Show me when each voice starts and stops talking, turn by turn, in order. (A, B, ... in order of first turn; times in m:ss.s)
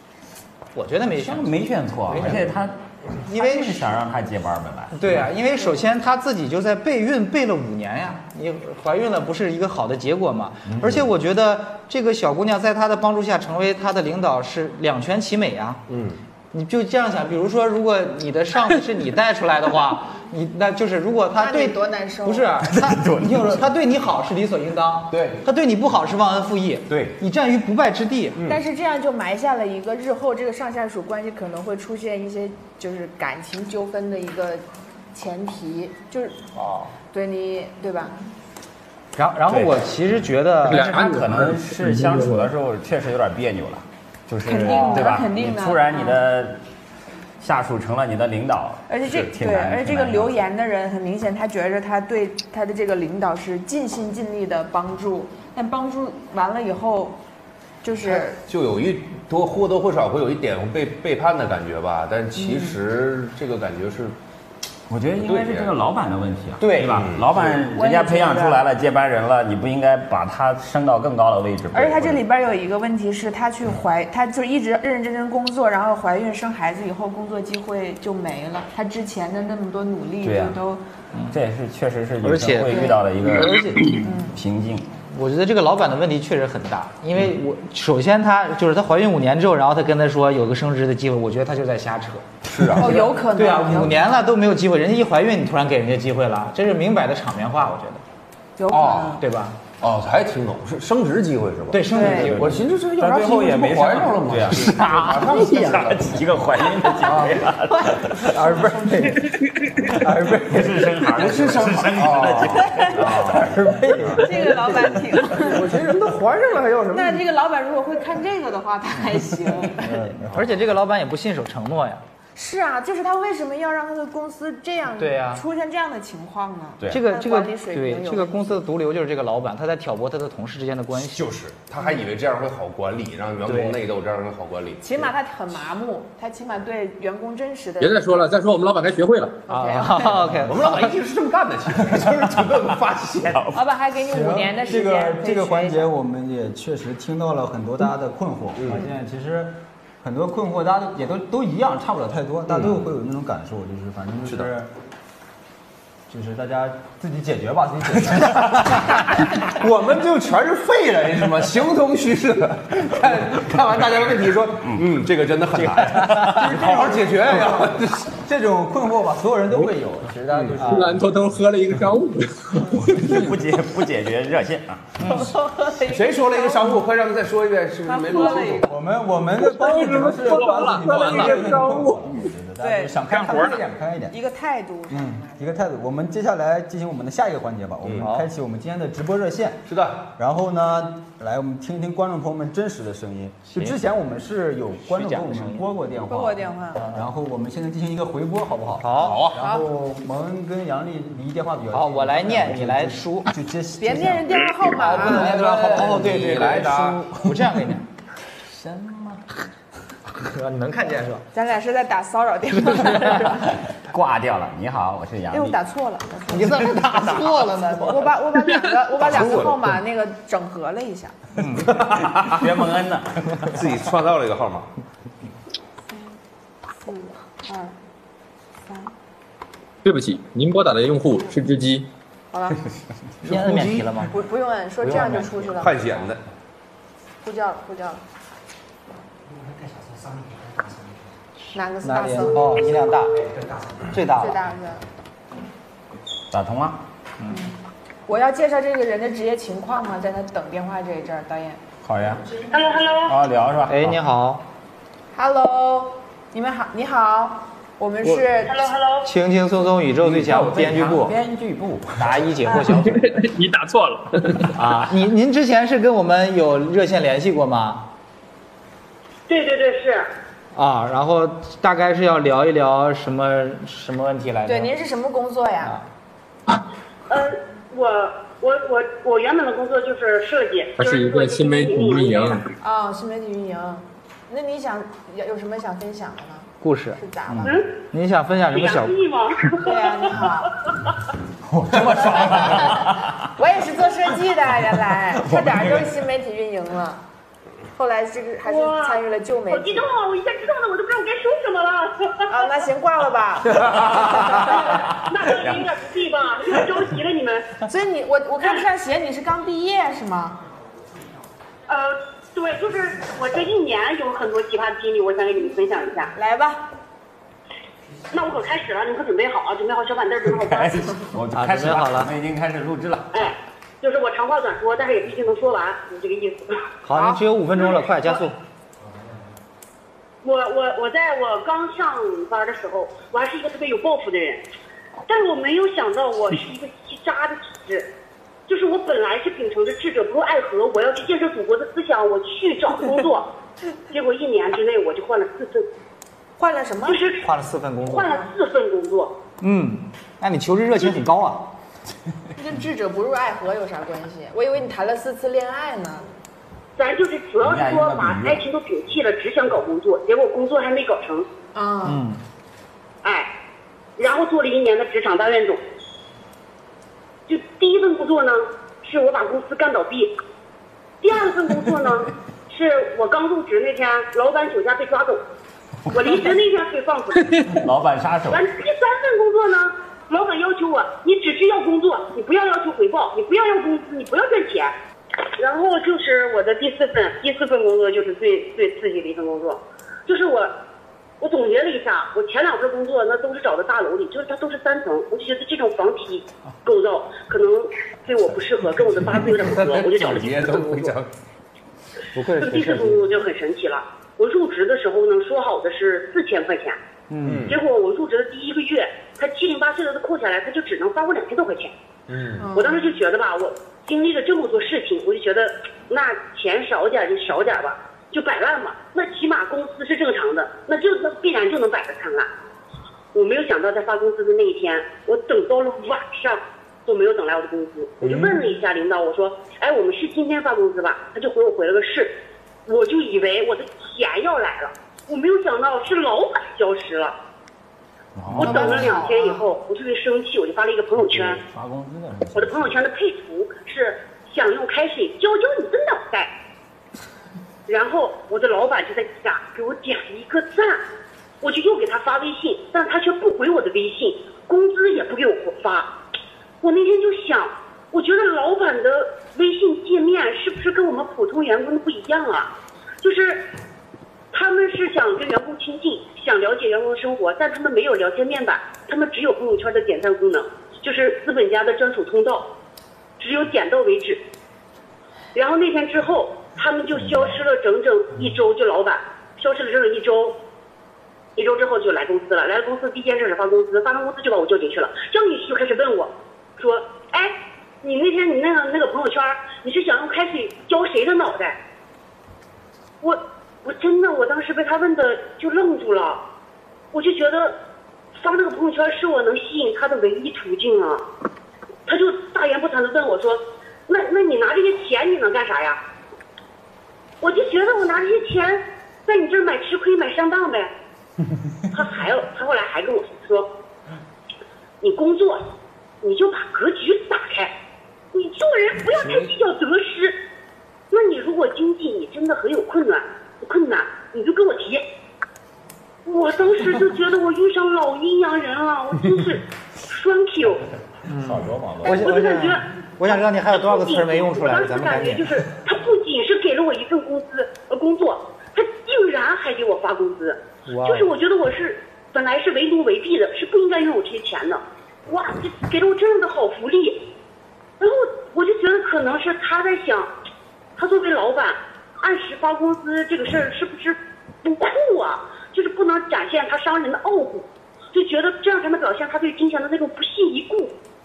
0:00.7-0:02.6 A
0:01.1-0:05.3 B
0:03.3-0:04.0 A
0:04.9-0:15.8 A
0:10.7-0:11.0 B
0:15.9-0:16.2 C
0:16.5-0:28.4 A
0:21.4-0:22.5 D
0:22.6-0:23.6 B
0:25.1-0:25.4 C
0:28.4-0:28.6 C
0:28.4-0:36.4 D
0:36.6-0:36.9 A
0:37.1-0:38.2 D
0:39.2-0:41.2 A
0:39.5-0:39.8 B
0:40.7-0:42.5 E
0:40.8-0:46.6 B
0:44.4-0:46.2 D
0:47.4-0:50.4 B
0:48.9-0:57.2 D
0:57.8-0:58.4 D
0:58.4-1:04.2 C
1:02.4-1:02.7 D
1:04.9-1:12.2 B
1:05.2-1:05.8 C
1:06.6-1:07.0 A
1:06.8-1:07.6 C
1:07.7-1:08.6 D
1:11.7-1:20.8 D
1:20.2-1:20.6 B
1:21.3-1:24.8 B
1:22.2-1:23.7 A
1:22.7-1:23.0 D
1:24.0-1:24.3 D
1:25.1-1:38.0 A
1:32.5-1:33.1 C
1:32.7-1:34.1 D
1:38.6-1:39.2 D
1:38.7-1:39.6 A
1:39.8-1:46.2 C
1:41.7-1:42.6 A
1:41.9-1:42.3 D
1:42.9-1:48.4 B
1:47.0-1:47.4 C
1:47.7-1:48.1 D
1:48.2-1:49.3 F
1:49.8-1:54.0 B
1:49.9-1:51.4 F
1:51.1-1:57.2 C
1:52.1-1:52.3 F
1:52.5-1:53.0 D
1:53.2-1:54.8 F
1:54.2-1:55.6 D
1:56.9-2:00.1 D
1:59.8-2:00.4 F
2:00.3-2:02.0 A
2:02.3-2:08.6 D
2:05.0-2:05.4 A
2:06.9-2:11.3 A
2:11.0-2:15.1 C
2:13.4-2:13.8 A
2:14.8-2:18.3 D
2:17.8-2:19.4 E
2:19.5-2:20.2 D
2:19.5-2:21.0 A
2:20.4-2:23.4 C
2:23.2-2:23.6 B
2:23.5-2:25.9 D
2:24.0-2:34.7 F
2:28.6-2:28.8 C
2:32.5-2:32.9 C
2:36.1-2:39.0 F
2:39.4-2:48.1 C
2:44.6-2:44.9 B
2:45.5-2:46.5 B
2:46.1-2:51.0 F
2:50.3-2:50.6 C
2:50.6-2:51.0 A
2:50.8-2:52.0 G
2:50.9-2:52.7 E
2:52.9-2:55.2 B
2:55.1-2:56.8 D
2:55.9-2:58.7 C
2:57.8-2:58.7 D
2:58.6-3:04.2 F
2:59.5-3:02.0 G
2:59.6-3:01.8 E
3:02.6-3:03.0 D
3:03.1-3:03.6 G
3:04.1-3:05.6 D
3:04.9-3:24.4 F
3:07.8-3:08.1 C
3:08.0-3:08.3 A
3:09.7-3:10.1 C
3:14.8-3:15.7 A
3:16.0-3:16.8 D
3:16.8-3:17.0 A
3:18.8-3:19.3 A
3:19.0-3:19.4 C
3:19.3-3:19.6 D
3:21.7-3:23.3 A
3:23.8-3:25.5 D
3:24.6-3:27.8 A
3:24.8-3:27.3 C
3:28.6-3:29.2 B
3:30.2-3:31.2 A
3:31.3-3:33.4 D
3:33.9-3:35.6 B
3:35.3-3:41.1 D
3:36.3-3:38.1 A
3:38.9-3:39.8 C
3:41.5-3:43.5 B
3:41.6-3:42.6 C
3:43.4-3:44.7 C
3:46.8-3:47.7 D
3:48.6-3:48.9 D
3:49.8-3:51.8 E
3:52.3-3:52.6 D
3:53.2-3:54.1 A
3:53.2-3:53.9 C
3:54.1-3:55.7 D
3:54.8-3:56.2 C
3:54.9-3:55.3 A
3:57.2-3:58.0 D
4:01.5-4:02.7 D
4:01.8-4:04.4 A
4:04.2-4:04.8 D
4:06.3-4:06.8 B
4:08.1-4:11.6 D
4:11.8-4:12.3 B
4:12.5-4:13.2 H
4:13.0-4:14.0 B
4:13.7-4:14.4 A
4:15.1-4:18.6 D
4:18.4-4:19.1 H
4:19.0-4:21.2 A
4:20.0-4:22.5 B
4:22.0-4:23.2 A
4:22.6-4:24.4 G
4:24.5-4:27.9 A
4:29.3-4:30.1 H
4:30.5-4:34.7 A
4:34.4-4:35.8 D
4:35.6-4:35.9 A
4:37.1-4:42.4 H
4:40.8-4:42.4 E
4:42.6-4:47.6 D
4:46.6-4:47.0 A
4:47.4-4:47.8 H
4:47.9-4:49.0 A
4:48.5-4:50.3 H
4:49.6-4:50.5 D
4:51.5-4:53.2 B
4:51.8-4:52.6 C
4:52.0-4:57.0 D
4:55.2-4:55.9 B
4:57.7-4:59.8 D
4:58.4-5:02.5 H
5:02.3-5:04.5 D
5:03.5-5:05.7 B
5:04.3-5:07.5 H
5:06.5-5:06.8 B
5:07.6-5:10.4 D
5:11.7-5:16.1 H
5:16.1-5:16.7 D
5:18.1-5:21.0 H
5:20.3-5:23.3 B
5:21.3-5:22.1 A
5:23.1-5:26.7 H
5:26.8-5:28.4 A
5:27.6-5:28.3 H
5:30.2-5:34.4 H
5:35.1-5:37.9 H
5:38.5-5:43.3 H
5:43.9-5:45.7 H
5:46.4-5:47.1 D
5:46.8-5:47.3 H
5:47.2-5:48.2 A
5:47.8-5:49.2 H
5:49.4-5:51.5 A
5:52.3-5:56.1 D
5:56.8-6:01.3 H
5:57.4-5:58.4 B
6:01.5-6:02.0 D
6:01.8-6:02.2 A
6:03.0-6:03.3 H
6:04.0-6:05.6 H
6:07.3-6:10.1 H
6:11.0-6:15.2 H
6:15.9-6:17.4 H
6:17.5-6:18.5 B
6:18.3-6:24.7 H
6:25.4-6:30.6 H
6:31.2-6:40.6 H
6:39.3-6:41.1 C
6:42.2-6:42.9 A
6:42.3-6:46.8 H
6:42.4-6:42.9 B
6:47.2-6:47.6 C
6:47.5-6:51.7 H
6:52.1-6:52.5 C
6:52.4-6:52.9 D
6:52.5-7:02.3 H
7:03.1-7:17.2 H
7:18.2-7:19.0 B
7:18.3-7:21.4 H
7:18.4-7:19.5 D
7:21.0-7:22.8 B
7:22.3-7:26.3 H
7:27.7-7:30.8 H
7:31.4-7:36.0 H
7:36.6-7:43.5 H
7:44.3-7:52.5 H
7:53.2-7:54.2 H
7:55.3-8:00.4 H
8:01.4-8:11.6 H
8:13.0-8:16.2 H
8:16.9-8:17.6 H
8:18.1-8:21.0 H
8:21.9-8:25.8 H
8:27.2-8:30.7 H
8:31.7-8:33.6 H
8:34.8-8:35.5 H
8:36.0-8:37.6 H
8:38.1-8:40.2 H
8:40.9-8:44.9 H
8:46.0-8:50.7 H
8:51.1-8:55.3 A
8:51.1-8:52.0 B
8:51.8-9:07.1 H
9:00.7-9:01.1 A
9:07.8-9:10.1 H
9:10.8-9:20.8 H